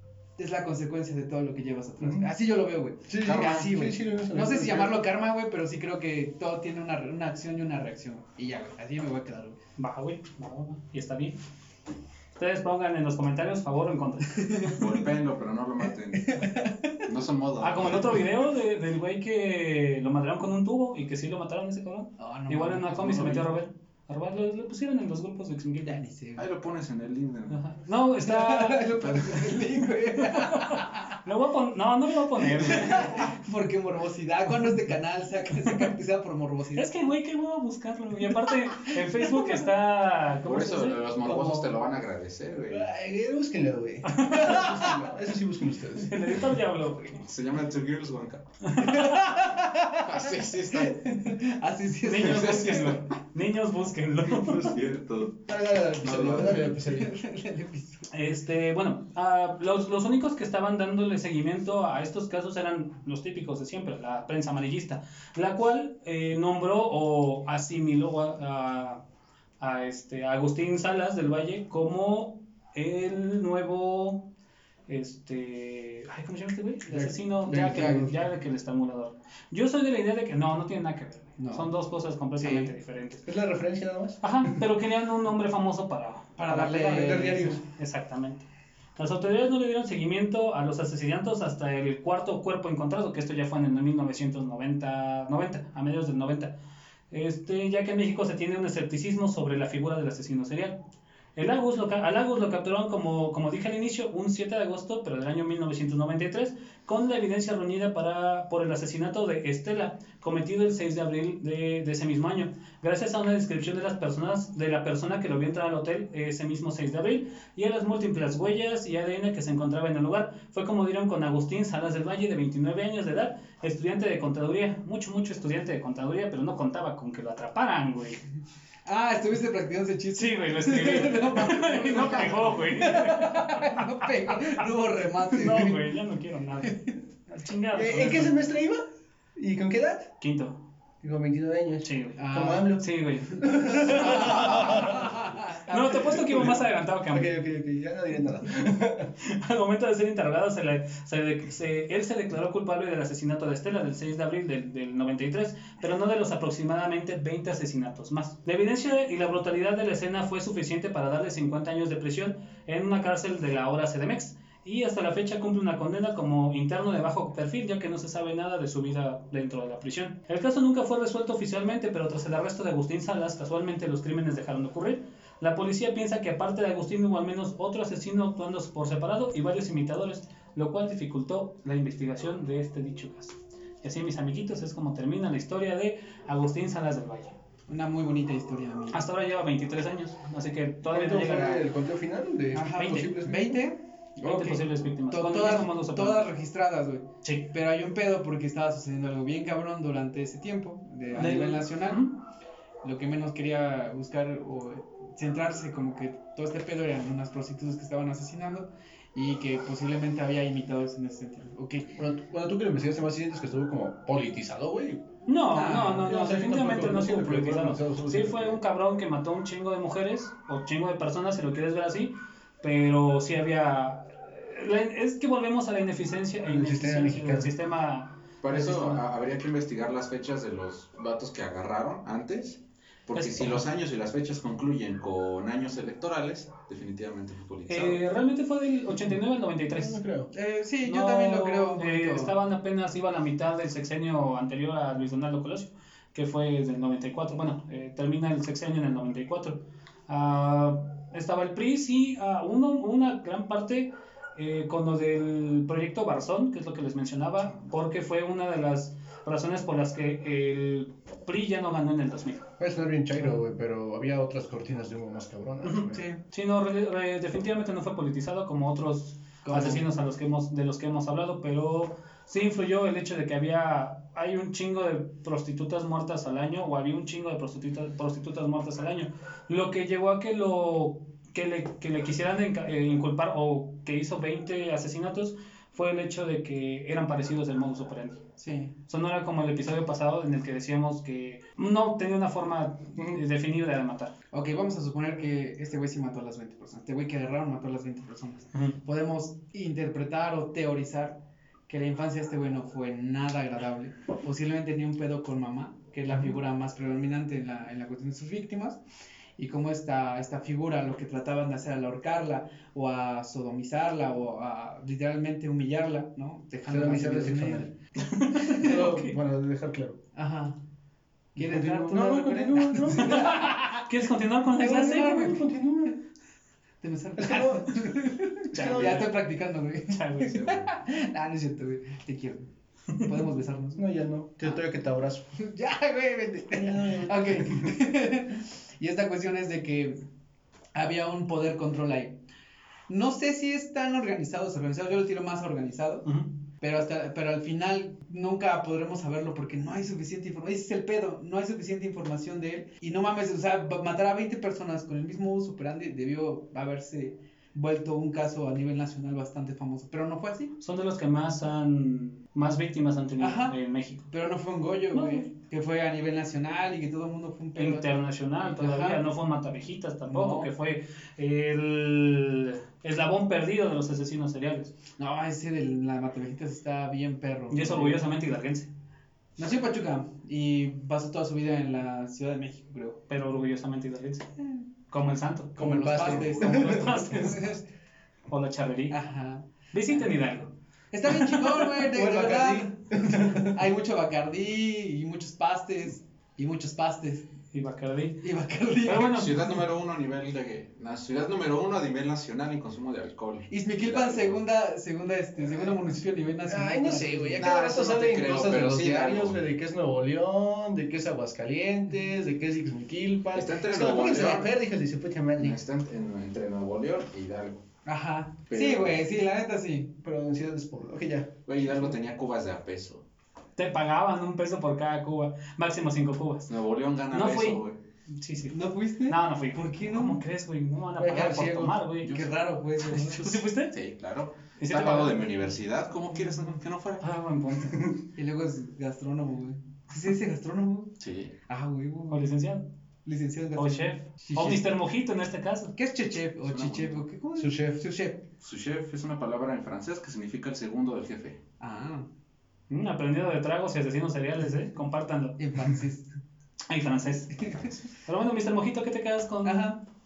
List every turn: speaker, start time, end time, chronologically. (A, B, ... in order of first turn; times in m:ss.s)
0:00.4-0:09.6 A
0:02.0-0:02.3 B
0:03.1-0:05.1 B
0:03.2-0:03.7 C
0:09.8-0:11.4 D
0:12.4-0:14.8 D
0:14.6-0:18.2 C
0:16.3-0:17.0 A
0:17.6-0:26.0 D
0:22.2-0:23.5 A
0:25.8-0:26.5 A
0:26.4-0:27.6 C
0:27.5-0:29.4 D
0:28.2-0:31.1 A
0:30.2-0:33.3 D
0:32.5-0:36.9 A
0:36.8-0:41.2 D
0:40.4-0:42.9 C
0:41.3-0:41.7 B
0:42.7-0:46.4 B
0:44.1-0:45.0 D
0:46.0-0:47.3 D
0:47.2-0:48.5 C
0:48.7-0:49.2 D
0:48.8-0:50.1 A
0:50.0-0:51.1 C
0:50.7-0:53.0 A
0:52.0-0:54.8 D
0:52.2-0:53.1 C
0:54.3-0:55.4 C
0:55.5-0:57.1 B
0:56.0-0:56.9 C
0:56.9-0:58.1 A
0:58.1-1:09.0 D
1:09.6-1:14.3 D
1:14.9-1:23.3 D
1:16.9-1:18.1 A
1:17.4-1:18.2 B
1:21.4-1:21.7 A
1:22.4-1:22.7 A
1:23.3-1:24.6 B
1:24.2-1:27.2 D
1:26.4-1:27.6 A
1:26.5-1:27.6 B
1:27.7-1:28.4 D
1:29.0-1:36.5 D
1:37.1-1:40.8 D
1:41.4-2:08.2 D
2:08.9-2:15.8 A
2:10.2-2:18.3 D
2:16.7-2:16.9 A
2:17.7-2:18.8 B
2:19.4-2:20.1 B
2:20.2-2:20.6 D
2:21.0-2:25.3 B
2:21.8-2:25.1 D
2:22.2-2:22.7 A
2:23.9-2:26.0 A
2:25.7-2:27.3 D
2:25.9-2:29.1 B
2:29.2-3:07.4 D
3:07.7-3:09.0 A
3:08.9-3:11.7 D
3:10.9-3:13.6 B
3:12.5-3:22.1 A
3:12.8-3:13.1 D
3:14.2-3:16.3 D
3:17.2-3:17.5 D
3:21.1-3:22.1 D
3:22.8-3:32.0 A
3:32.0-3:35.1 B
3:35.3-3:49.0 D
3:35.5-3:36.1 A
3:35.8-3:38.6 B
3:46.4-3:47.5 B
3:48.4-3:58.0 C
3:53.1-3:53.6 D
3:57.7-4:00.0 D
3:59.7-4:00.3 B
4:00.3-4:02.4 A
4:00.8-4:22.5 D
4:22.6-4:26.0 B
4:25.7-4:48.2 D
4:25.9-4:26.2 A
4:29.4-4:29.9 A
4:48.4-4:48.7 A
4:48.9-4:54.1 D
4:54.3-5:08.8 A
5:09.4-5:17.7 A
5:16.7-5:17.7 B
5:18.0-5:19.2 D
5:18.5-5:20.0 B
5:20.2-5:20.6 A
5:21.4-5:23.3 B
5:21.4-5:23.9 A
5:23.0-5:25.4 D
5:24.5-5:25.4 A
5:24.6-5:26.0 B
5:26.8-5:33.8 A
5:27.2-5:27.9 B
5:28.5-5:29.1 B
5:28.5-5:29.2 D
5:29.9-5:30.6 D
5:30.4-5:30.7 C
5:33.8-5:35.3 B
5:35.4-5:40.0 A
5:36.5-5:37.7 B
5:40.8-5:42.2 A
5:42.9-5:46.1 A
5:46.6-6:00.5 A
6:00.6-6:04.1 D
6:03.2-6:03.6 A
6:04.1-6:09.1 A
6:04.9-6:05.3 D
6:07.6-6:14.7 D
6:10.1-6:10.5 A
6:15.0-6:18.0 A
6:17.5-6:18.7 D
6:19.4-6:23.0 A
6:23.1-6:24.3 D
6:24.9-6:27.6 D
6:25.6-6:27.2 B
6:25.6-6:27.6 A
6:28.3-6:29.0 D
6:28.9-6:29.5 A
6:29.7-6:30.5 D
6:30.9-6:37.3 A
6:31.1-6:31.7 D
6:31.8-6:33.6 B
6:37.5-6:38.2 D
6:38.2-6:39.3 A
6:38.8-6:39.5 D
6:39.0-6:44.4 C
6:43.5-6:47.4 A
6:46.4-6:55.6 B
6:47.4-6:49.4 C
6:53.3-6:54.5 C
6:55.4-6:57.6 C
6:57.9-7:00.0 A
6:58.5-6:59.0 C
7:00.0-7:01.4 B
7:01.5-7:03.0 C
7:03.6-7:06.5 D
7:06.5-7:07.8 C
7:07.1-7:07.6 D
7:08.2-7:12.3 D
7:08.5-7:10.2 A
7:11.0-7:11.8 B
7:12.0-7:12.3 C
7:12.0-7:13.4 A
7:12.8-7:13.7 D
7:13.0-7:17.0 C
7:14.6-7:15.3 D
7:17.0-7:18.0 D
7:18.2-7:21.0 A
7:21.0-7:21.3 C
7:21.5-7:22.3 A
7:22.1-7:22.7 D
7:23.1-7:24.7 A
7:23.6-7:25.8 D
7:25.8-7:28.2 A
7:26.4-7:27.0 C
7:27.4-7:27.8 B
7:28.4-7:31.4 C
7:31.6-7:32.1 A
7:32.7-7:35.6 D
7:35.4-7:36.1 A
7:36.7-7:39.7 D
7:37.4-7:37.7 A
7:39.4-7:39.8 A